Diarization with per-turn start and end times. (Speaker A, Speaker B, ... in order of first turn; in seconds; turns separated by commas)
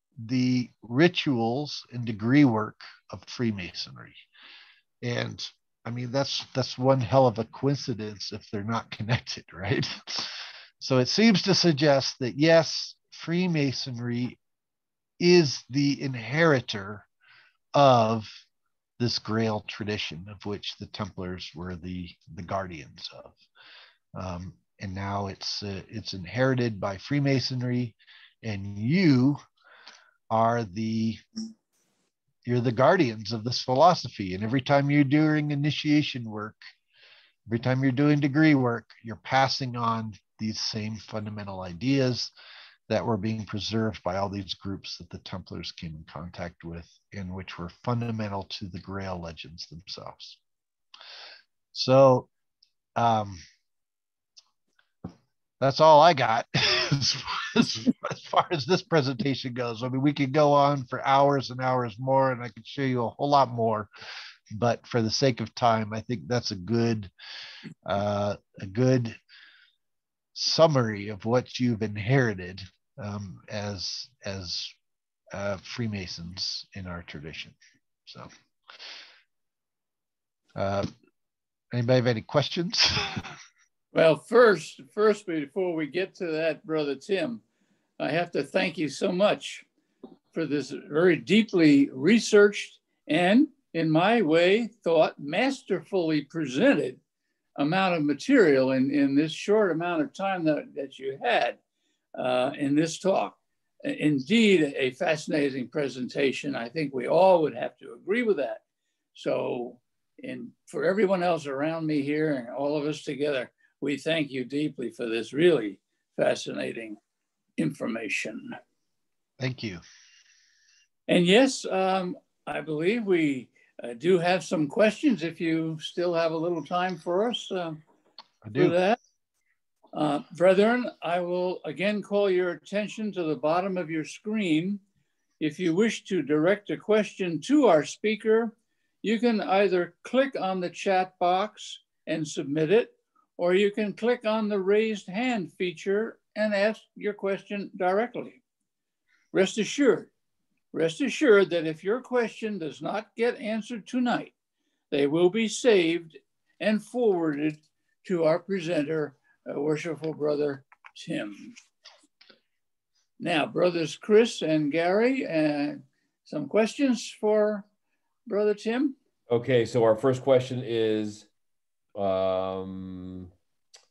Speaker A: 0.2-4.2, Speaker A: 5.0-14.4, Speaker A: 15.2-17.1, Speaker A: 17.8-18.4, Speaker A: 19.0-23.4, Speaker A: 24.1-29.4, Speaker A: 30.3-31.2, Speaker A: 32.5-36.6, Speaker A: 37.5-42.3, Speaker A: 42.9-50.4, Speaker A: 51.7-52.3, Speaker A: 53.0-53.4, Speaker A: 55.6-63.9, Speaker A: 64.5-67.1, Speaker A: 67.8-69.2, Speaker A: 70.3-74.8, Speaker A: 75.3-78.3, Speaker A: 80.6-80.9, Speaker A: 81.7-83.4, Speaker B: 83.9-87.4, Speaker B: 88.0-89.7, Speaker B: 90.3-97.0, Speaker B: 97.6-101.6, Speaker B: 102.2-108.6, Speaker B: 109.2-117.0, Speaker B: 117.6-118.6, Speaker A: 119.4-119.8, Speaker B: 121.1-127.8, Speaker A: 128.4-128.8, Speaker B: 128.6-129.0, Speaker B: 129.9-134.8, Speaker B: 135.4-148.4, Speaker B: 149.3-150.1, Speaker B: 150.7-154.3, Speaker B: 154.9-161.6, Speaker B: 163.2-167.7, Speaker B: 168.3-168.9, Speaker C: 169.3-171.3, Speaker C: 171.9-173.3